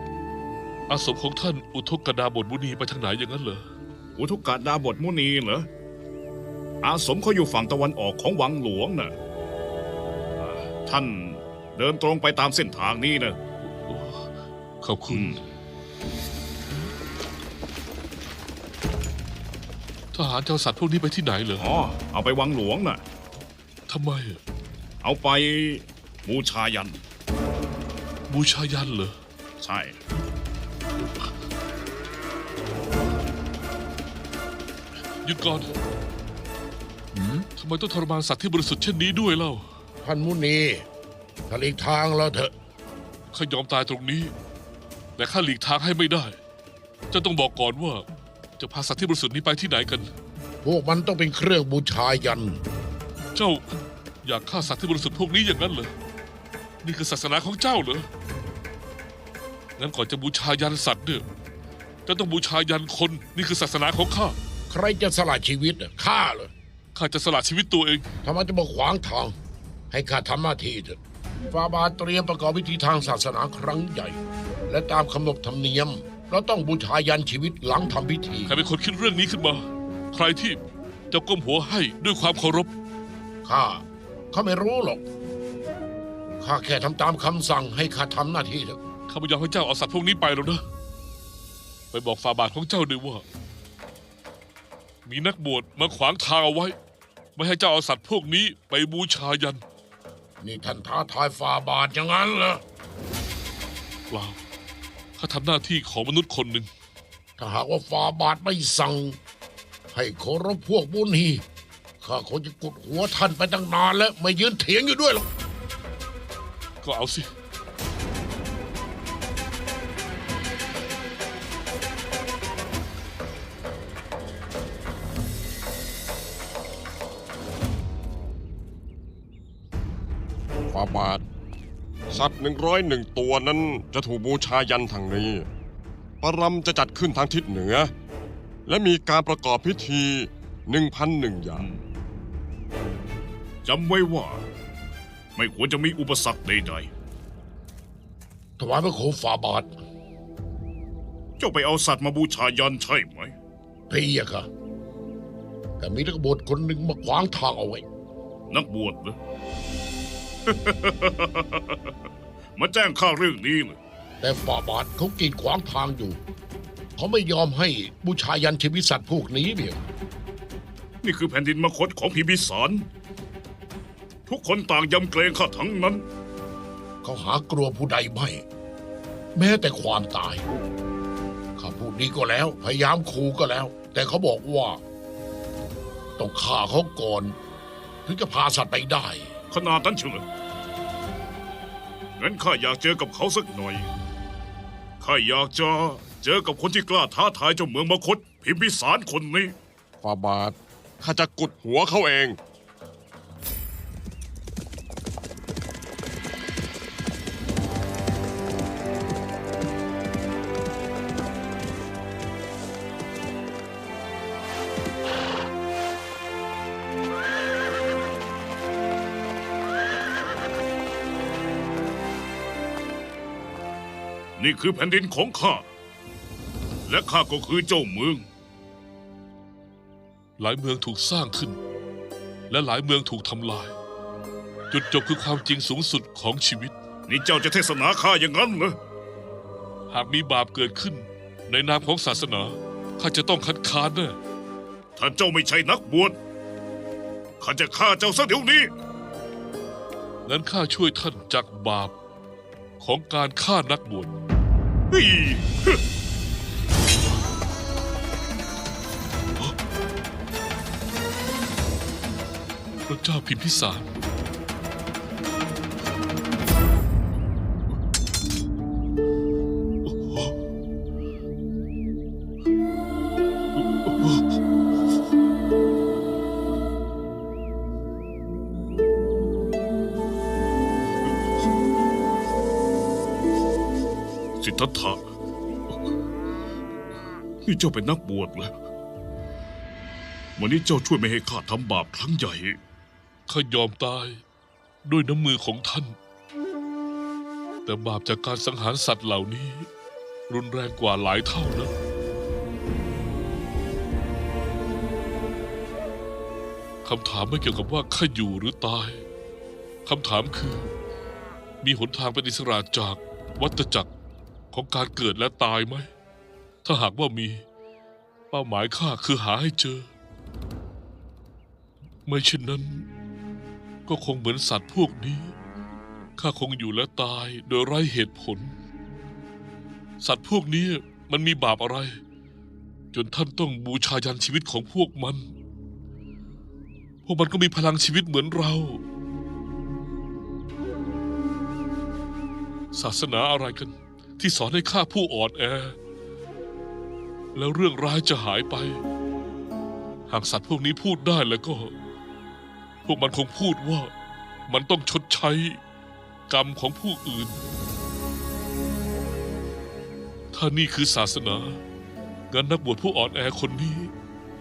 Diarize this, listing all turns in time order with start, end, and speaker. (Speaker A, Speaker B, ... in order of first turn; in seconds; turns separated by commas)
Speaker A: 0.9-3.6, Speaker B: 4.2-5.7, Speaker B: 6.8-9.1, Speaker B: 10.4-13.4, Speaker A: 13.6-14.3, Speaker A: 14.8-15.4, Speaker B: 15.1-15.4, Speaker A: 20.1-21.6, Speaker B: 21.6-23.0, Speaker A: 23.9-24.4, Speaker B: 25.0-27.0, Speaker A: 28.3-29.2, Speaker B: 29.6-30.0, Speaker A: 35.2-35.7, Speaker C: 37.1-37.5, Speaker A: 37.6-39.6, Speaker C: 40.0-40.9, Speaker C: 41.5-42.5, Speaker A: 43.3-44.3, Speaker A: 45.2-46.4, Speaker A: 47.1-48.1, Speaker A: 48.6-50.1, Speaker C: 50.6-52.6, Speaker A: 53.3-53.7, Speaker A: 54.2-55.9, Speaker A: 56.8-58.1, Speaker A: 59.8-61.2, Speaker A: 62.1-64.4, Speaker C: 64.7-66.5, Speaker A: 67.0-68.1, Speaker C: 68.2-69.4, Speaker C: 69.9-71.0, Speaker C: 71.5-78.6, Speaker A: 78.5-80.6, Speaker A: 81.1-82.7, Speaker C: 83.5-85.0, Speaker C: 86.4-88.8, Speaker A: 89.1-90.6, Speaker A: 91.9-93.2, Speaker A: 95.0-96.8, Speaker A: 97.4-99.6, Speaker C: 100.4-102.6, Speaker A: 104.1-104.4, Speaker A: 105.2-106.7, Speaker C: 107.4-109.2, Speaker C: 109.9-111.4, Speaker C: 112.0-115.3, Speaker A: 116.8-117.3, Speaker D: 130.7-131.2, Speaker D: 132.1-135.5, Speaker D: 136.2-137.9, Speaker D: 138.7-141.7, Speaker B: 143.7-144.4, Speaker B: 145.4-146.9, Speaker C: 148.6-149.8, Speaker B: 151.4-153.3, Speaker C: 153.9-154.5, Speaker C: 155.8-157.8, Speaker B: 158.5-159.2, Speaker B: 160.5-162.0, Speaker B: 162.6-163.8, Speaker C: 164.2-166.2, Speaker C: 167.0-169.9, Speaker B: 171.0-172.9, Speaker B: 174.3-176.1, Speaker C: 177.0-178.4, Speaker C: 179.3-180.4, Speaker C: 181.6-184.8, Speaker C: 186.2-187.3, Speaker C: 188.1-189.3, Speaker B: 189.5-190.3, Speaker B: 192.2-193.9, Speaker B: 195.0-199.6, Speaker C: 200.1-200.5, Speaker D: 201.0-202.4, Speaker B: 224.4-225.7, Speaker B: 226.9-228.3, Speaker A: 230.4-231.6, Speaker A: 232.5-233.8, Speaker A: 234.7-236.8, Speaker B: 237.1-238.8, Speaker A: 239.9-244.2, Speaker B: 245.0-246.2, Speaker B: 247.4-248.7, Speaker A: 250.3-251.9, Speaker A: 252.8-254.2, Speaker B: 254.9-255.8, Speaker A: 262.9-263.9, Speaker B: 284.4-285.0, Speaker B: 287.4-288.5, Speaker B: 290.4-292.6, Speaker A: 293.3-294.2, Speaker A: 294.8-296.0, Speaker A: 297.6-299.7, Speaker A: 300.3-301.7, Speaker A: 306.8-309.1, Speaker A: 309.9-310.7, Speaker A: 311.6-313.9, Speaker A: 314.5-315.9, Speaker A: 316.6-317.4, Speaker A: 318.3-319.9, Speaker A: 322.1-322.9, Speaker A: 323.9-325.4, Speaker A: 326.2-328.5, Speaker A: 330.0-332.0, Speaker A: 332.9-335.3, Speaker A: 337.0-338.8, Speaker A: 342.7-345.8, Speaker A: 347.4-348.8, Speaker A: 350.1-351.7, Speaker A: 352.9-353.9, Speaker A: 354.5-355.6, Speaker A: 356.3-357.4, Speaker A: 360.3-361.6, Speaker A: 362.3-363.9